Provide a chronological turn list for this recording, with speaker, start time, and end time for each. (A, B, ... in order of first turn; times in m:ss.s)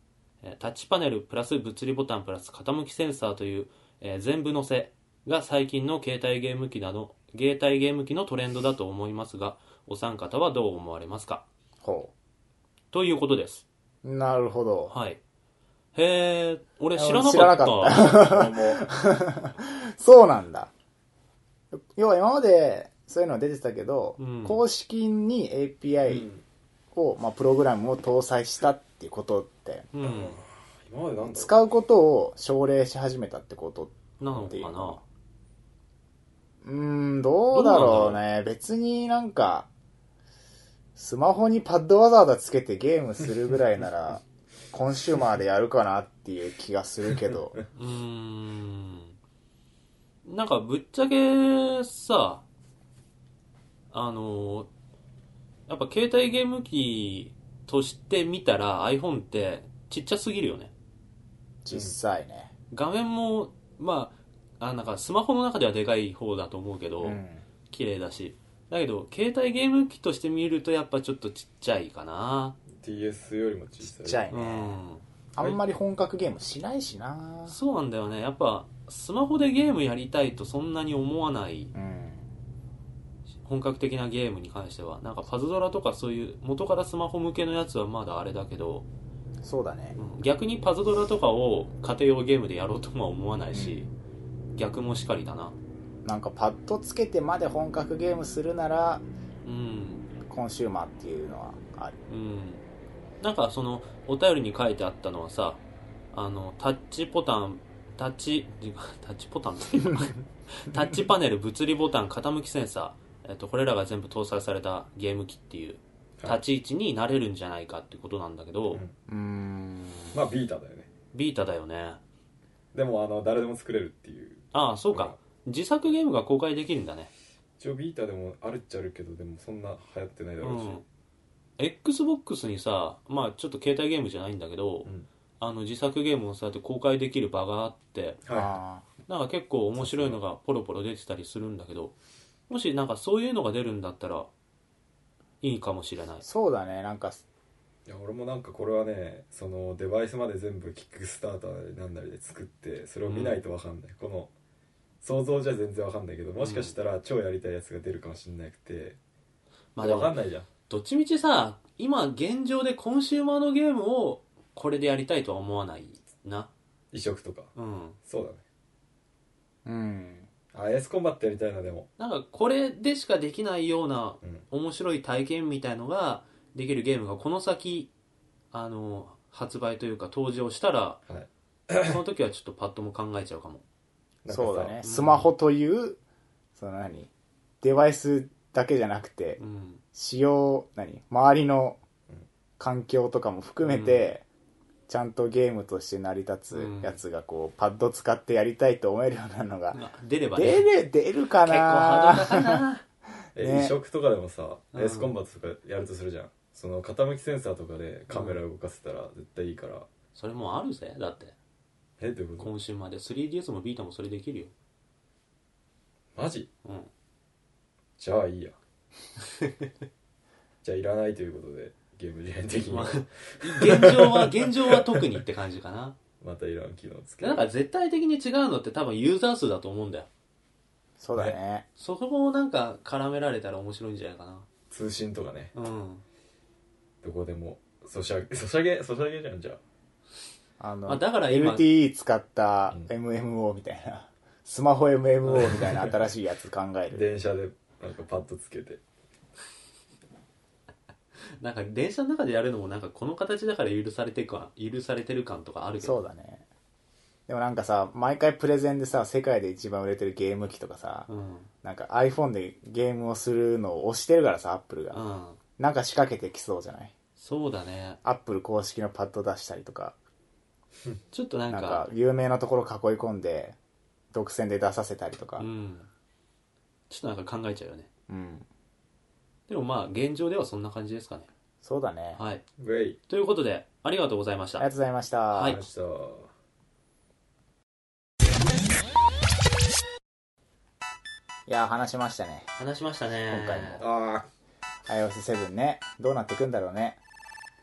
0:00.4-0:11.4 A
0:11.8-0:12.1 B
0:12.9-0:13.6 A
0:14.0-0:14.9 B
0:14.9-0:15.2 A
0:15.9-0:18.3 A
0:17.0-0:20.7 B
0:18.0-0:18.8 C
0:21.9-0:26.3 B
0:24.2-0:24.6 A
0:26.0-0:26.4 C
0:26.9-0:29.9 B
0:29.9-0:30.4 A
0:30.0-0:31.5 C
0:31.3-0:35.0 B
0:34.2-0:35.0 A
0:36.6-0:39.7 B
0:37.5-0:38.2 A
0:41.0-0:47.5 B
0:47.7-0:49.2 A
0:50.2-0:52.4 A
0:53.9-0:54.7 A
0:55.7-1:00.7 A
1:01.6-1:02.5 B
1:02.7-1:12.6 A
1:07.0-1:07.4 B
1:12.7-1:14.2 C
1:13.8-1:14.8 B
1:14.3-1:15.6 A
1:15.4-1:17.6 B
1:17.5-1:21.7 A
1:21.7-1:22.3 B
1:23.4-1:28.8 A
1:29.4-1:30.0 B
1:30.0-1:33.9 A
1:33.5-1:33.8 B
1:34.5-1:35.6 A
1:36.0-1:39.0 B
1:39.4-1:40.1 A
1:40.2-1:42.0 B
1:42.1-1:42.6 A
1:43.2-1:45.6 A
1:46.1-1:58.8 A
1:59.1-2:00.2 B
2:00.1-2:00.9 C
2:01.1-2:02.0 A
2:02.7-2:05.2 C
2:04.5-2:07.1 A
2:07.6-2:10.8 C
2:10.4-2:10.8 A
2:11.6-2:18.2 A
2:18.2-2:18.5 C
2:18.3-2:18.8 B
2:19.0-2:21.9 A
2:19.8-2:20.2 C
2:22.5-2:24.3 A
2:25.4-2:26.2 A
2:26.2-2:27.2 B
2:27.8-2:34.3 C
2:33.0-2:33.4 A
2:35.0-2:39.0 C
2:36.4-2:36.8 A
2:39.8-2:40.1 A
2:39.8-2:40.5 C
2:40.7-2:46.5 A
2:46.9-2:47.5 C
2:47.5-2:48.0 A
2:48.0-2:48.4 C
2:49.6-2:50.3 B
2:50.5-2:51.9 C
2:52.0-2:57.9 A
2:58.5-3:01.0 A
3:01.1-3:02.0 C
3:01.8-3:03.6 A
3:04.2-3:04.8 C
3:04.3-3:06.0 B
3:04.8-3:05.3 A
3:06.6-3:07.1 B
3:07.6-3:09.4 B
3:09.4-3:09.8 A
3:09.9-3:11.8 B
3:12.6-3:14.2 B
3:13.6-3:14.1 A
3:14.9-3:19.8 B
3:16.5-3:17.0 A
3:19.7-3:20.7 A
3:20.4-3:22.6 B
3:21.4-3:22.8 A
3:23.4-3:23.7 B
3:23.4-3:29.9 C
3:24.7-3:25.1 A
3:28.1-3:28.4 A
3:30.1-3:31.3 A
3:32.0-3:32.5 C
3:32.4-3:34.5 A
3:36.1-3:36.5 C
3:36.6-3:36.9 A
3:38.0-3:38.6 C
3:39.4-3:39.7 A
3:40.6-3:45.0 C
3:42.7-3:46.0 A
3:46.2-3:47.4 C
3:47.2-3:50.1 A
3:51.0-3:51.6 B
3:51.8-3:54.4 A
3:54.7-3:55.5 C
3:55.5-3:56.0 A
3:57.0-3:59.6 C
4:00.6-4:07.0 B
4:00.8-4:01.7 A
4:05.3-4:05.6 A
4:05.3-4:06.0 C
4:06.9-4:08.8 C
4:11.4-4:16.0 A
4:15.8-4:16.4 B
4:17.3-4:21.1 B
4:21.1-4:21.5 A
4:21.6-4:25.0 B
4:24.9-4:25.4 A
4:25.6-4:26.9 B
4:27.2-4:28.0 A
4:28.0-4:30.0 B
4:31.1-4:31.9 A
4:31.5-4:33.6 B
4:34.1-4:35.4 B
4:35.4-4:35.9 A
4:36.9-4:37.9 A
4:38.1-4:38.5 B
4:39.5-4:41.3 A
4:41.6-4:42.2 B
4:42.2-4:42.4 A
4:42.6-4:43.0 C
4:43.1-4:44.7 A
4:44.6-4:45.6 B
4:45.3-4:45.6 A
4:45.5-4:46.3 C
4:51.5-4:52.5 B
4:52.6-4:53.8 A
4:53.3-4:53.8 B
4:53.8-4:54.3 C
4:54.9-4:57.0 B